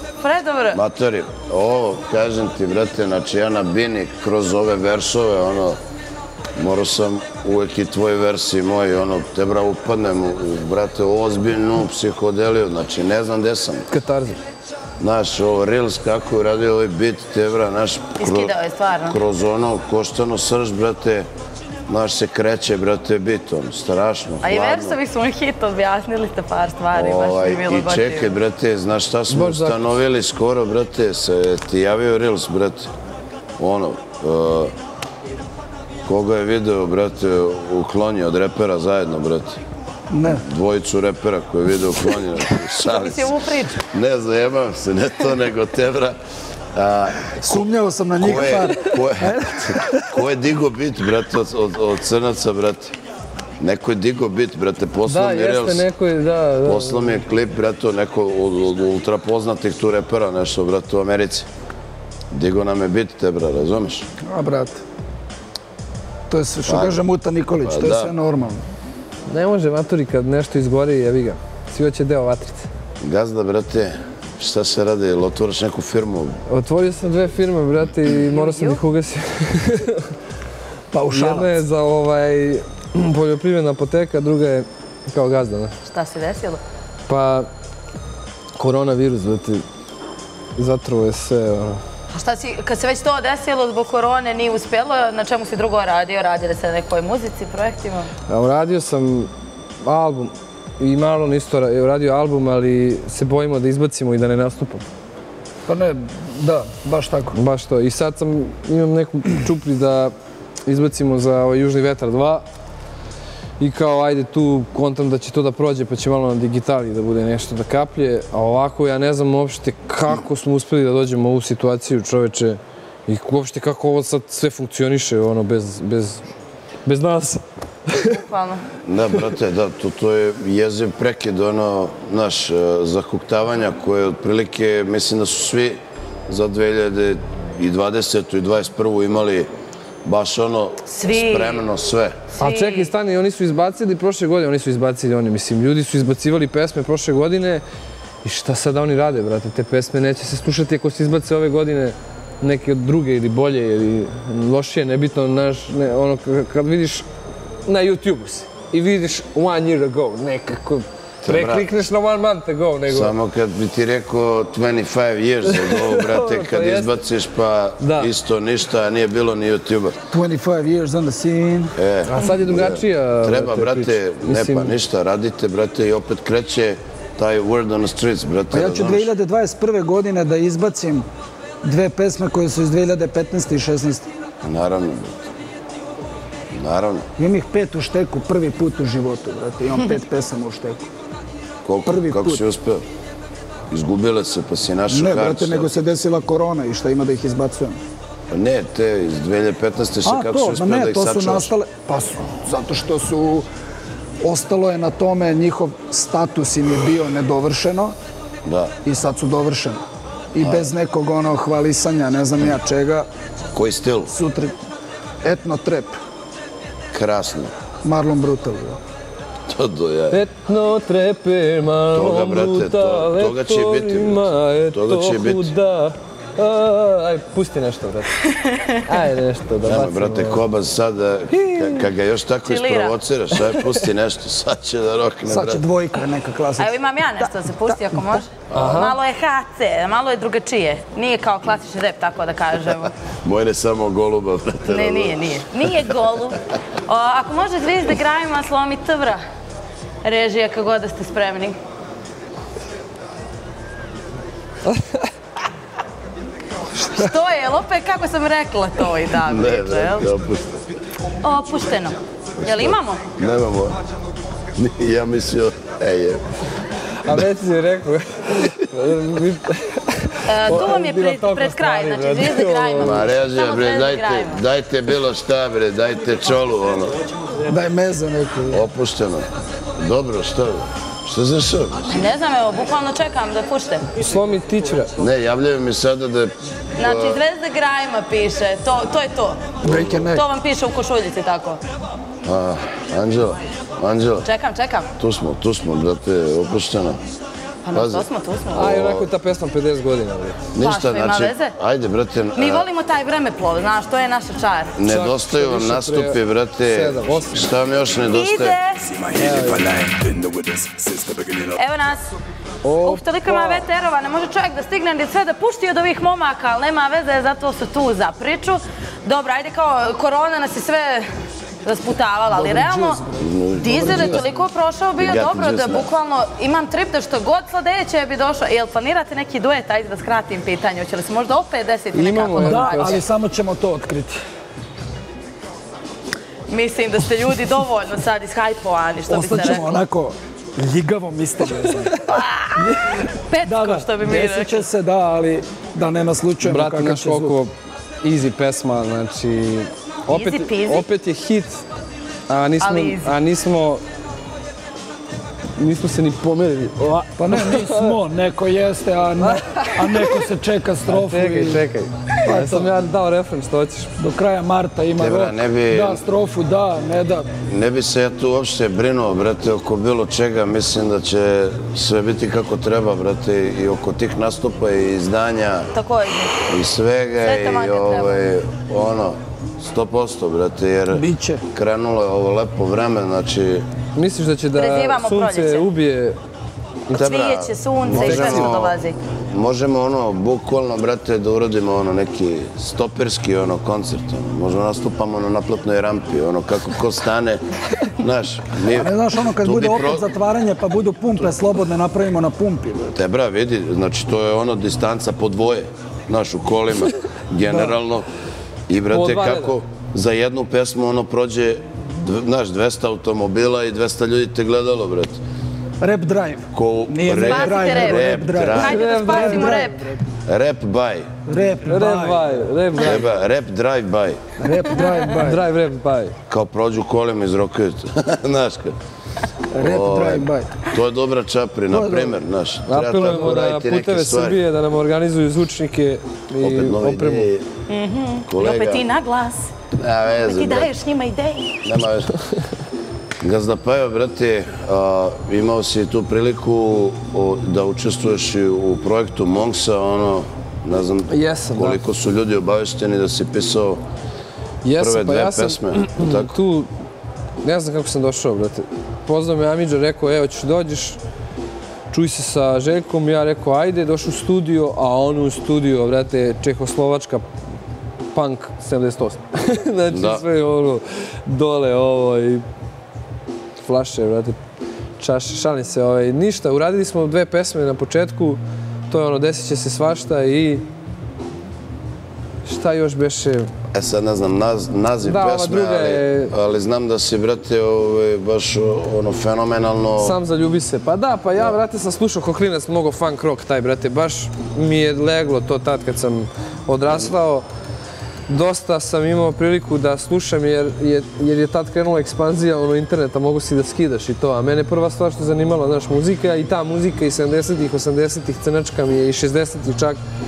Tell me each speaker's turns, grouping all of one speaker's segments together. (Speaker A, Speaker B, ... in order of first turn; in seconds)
Speaker A: 0.2-0.8, 18.2-19.2, 24.4-28.3, 42.9-43.8, 78.3-78.8, 85.9-86.6, 92.1-98.1, 128.0-128.7, 140.9-141.6, 142.4-142.9, 228.2-228.8, 232.4-233.0, 236.6-242.9, 244.7-249.2, 250.0-251.6, 256.7-260.1, 261.2-263.0, 270.3-274.4, 281.9-283.9, 286.8-289.5, 290.1-291.6, 294.2-294.9, 297.6-298.8, 300.6-301.6, 302.4-304.8, 308.1-309.1, 311.4-312.0, 312.8-321.1, 321.6-323.0, 323.6-333.0, 336.5-339.8, 342.1-344.6, 350.1-350.9, 352.6-353.2, 375.7-376.4, 377.2-378.2, 384.5-385.7, 386.9-389.0, 417.1-419.9, 437.7-439.5, 440.3-441.6
Speaker B: 0.7-5.8, 6.6-13.9, 15.0-18.6, 19.1-21.3, 21.9-25.0, 26.9-32.9, 33.6-34.7, 36.1-39.6, 40.4-43.3, 43.9-46.2, 46.8-47.6, 48.2-53.0, 53.6-55.9, 56.6-61.5, 62.3-64.1, 66.7-67.0, 67.6-68.1, 73.0-76.4, 128.8-139.5, 140.1-142.2, 161.2-161.7, 162.9-170.0, 171.8-179.1, 184.4-185.3, 186.5-187.1, 191.6-192.8, 193.7-195.8, 198.3-201.5, 208.4-208.8, 210.4-210.7, 213.5-214.1, 216.9-217.5, 219.5-220.2, 221.9-225.5, 229.6-235.6, 238.5-238.8, 243.2-245.4, 259.2-260.6, 262.4-263.8, 264.6-266.2, 272.8-277.0, 278.5-282.0, 285.0-287.2, 289.6-290.1, 292.2-294.3, 295.0-297.0, 297.7-298.1, 298.6-299.1, 300.5-302.7, 304.8-308.6, 323.2-324.3, 325.0-325.9, 365.0-366.0, 367.5-375.7, 376.5-383.7, 386.9-388.8, 389.3-397.4, 398.0-400.1, 402.9-408.1, 408.7-415.2, 416.5-418.8, 420.3-421.1, 422.8-424.2, 426.3-428.8, 429.6-434.4, 436.4-437.5, 438.3-438.9, 439.8-440.7, 441.6-442.1, 443.2-453.8, 454.8-456.4, 469.9-470.2, 483.7-490.2
Speaker C: 13.9-14.4, 29.3-29.9, 55.0-57.3, 69.3-72.7, 76.5-80.1, 81.1-85.7, 87.1-87.5, 88.6-89.7, 90.6-91.8, 98.3-99.3, 99.8-104.8, 107.3-110.1, 110.7-112.4, 113.6-126.2, 126.8-128.2, 142.4-147.6, 148.2-157.1, 157.7-163.2, 165.4-167.0, 167.8-168.1, 172.1-174.8, 220.1-228.1, 228.9-230.4, 231.3-231.9, 233.3-233.9, 238.5-239.0, 267.0-273.1, 283.9-284.9, 298.5-300.4, 304.9-307.5, 309.1-310.2, 312.6-313.6, 331.9-333.0, 346.4-351.6, 352.3-353.8, 355.6-358.0, 359.2-360.2, 360.9-363.9, 383.9-386.2, 387.9-388.6, 408.9-409.6, 418.5-419.7, 421.6-423.1, 425.1-426.2, 432.7-437.3, 451.1-451.8, 454.6-456.7, 457.4-461.0, 461.9-467.3, 468.1-472.4, 473.6-474.4, 475.0-480.6, 482.4-483.5, 485.0-486.3, 490.0-497.5, 498.3-510.0
Speaker D: 40.1-40.5, 47.4-50.0, 64.2-64.8, 66.3-68.6, 80.9-81.6, 105.7-107.4, 170.1-171.7, 178.5-181.1, 181.6-184.1, 187.2-190.9, 191.9-192.4, 194.9-197.8, 200.1-203.5, 204.2-207.9, 208.8-209.8, 210.3-213.1, 214.1-214.6, 215.2-215.9, 217.8-218.8, 235.3-238.2, 277.5-278.6, 289.6-290.2, 322.3-324.2, 332.4-334.2, 339.1-342.0, 342.6-347.4, 357.2-361.7, 362.2-362.8, 364.0-367.3, 380.9-381.4, 398.7-402.9, 415.8-420.0, 421.3-422.4, 424.4-425.4, 429.5-430.7, 431.7-432.2